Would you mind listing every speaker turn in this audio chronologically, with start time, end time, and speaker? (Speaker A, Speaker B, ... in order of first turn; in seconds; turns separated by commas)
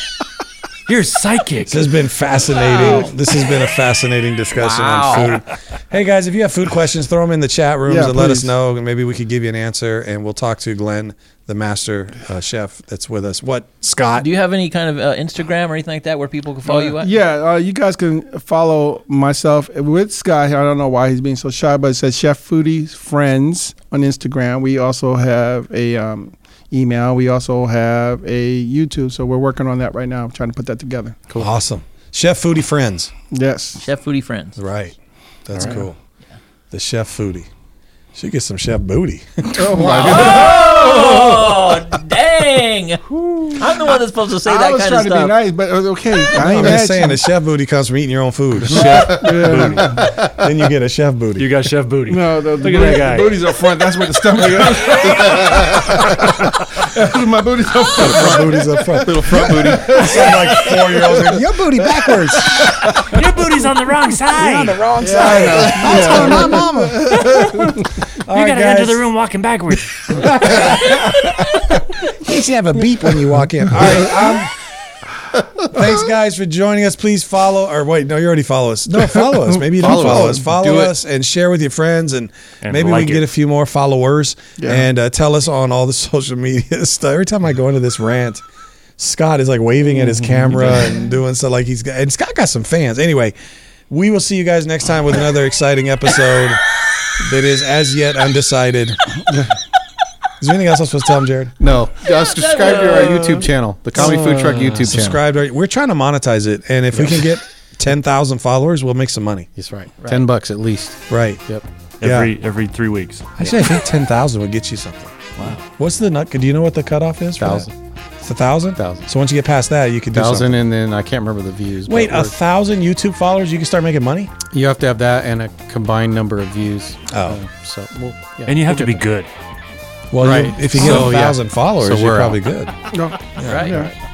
Speaker A: 0.9-1.9, Speaker B: 1.7-14.3, Speaker C: 2.6-3.0, Speaker D: 2.8-3.1, Speaker C: 4.6-5.4, Speaker D: 7.9-8.5, Speaker C: 14.2-17.2, Speaker D: 16.7-31.2, Speaker B: 31.4-33.1, Speaker D: 33.3-33.9, Speaker C: 33.8-34.6, Speaker B: 34.5-36.0, Speaker E: 35.5-35.8, Speaker D: 35.6-35.8, Speaker B: 36.7-37.5, Speaker B: 38.1-39.9, Speaker D: 39.5-41.5, Speaker E: 39.8-40.3, Speaker C: 39.9-43.0, Speaker D: 43.1-47.2, Speaker C: 43.5-45.4, Speaker B: 46.4-49.2, Speaker A: 48.6-50.1, Speaker D: 48.9-50.1, Speaker B: 50.2-51.5, Speaker A: 51.4-53.4, Speaker D: 52.1-61.4, Speaker A: 54.6-55.5, Speaker B: 57.9-62.9, Speaker E: 59.0-60.1, Speaker D: 62.6-63.1, Speaker A: 62.6-64.8, Speaker B: 64.3-69.1, Speaker D: 65.0-67.8, Speaker A: 67.1-71.1, Speaker B: 70.4-71.1, Speaker B: 72.1-74.5, Speaker B: 75.7-88.4, Speaker E: 79.7-80.9, Speaker A: 82.6-83.2, Speaker D: 84.6-84.8, Speaker B: 89.0-93.3, Speaker B: 93.9-96.6, Speaker B: 97.2-99.1, Speaker B: 100.4-101.5, Speaker E: 101.6-105.2, Speaker C: 102.3-103.4, Speaker B: 103.9-109.5, Speaker E: 106.9-107.3, Speaker E: 109.5-111.7, Speaker C: 110.0-110.2, Speaker B: 111.1-111.4, Speaker A: 112.0-113.3, Speaker B: 112.0-112.3, Speaker B: 113.4-117.7, Speaker A: 115.4-115.6, Speaker E: 117.4-117.7, Speaker B: 118.2-120.5, Speaker E: 118.8-119.0, Speaker E: 120.1-122.3, Speaker B: 121.8-124.3, Speaker E: 124.5-129.0, Speaker B: 127.1-127.4, Speaker A: 128.5-129.3, Speaker B: 130.1-132.8, Speaker E: 130.2-132.4, Speaker D: 132.9-133.9, Speaker C: 133.3-133.9, Speaker B: 133.4-133.8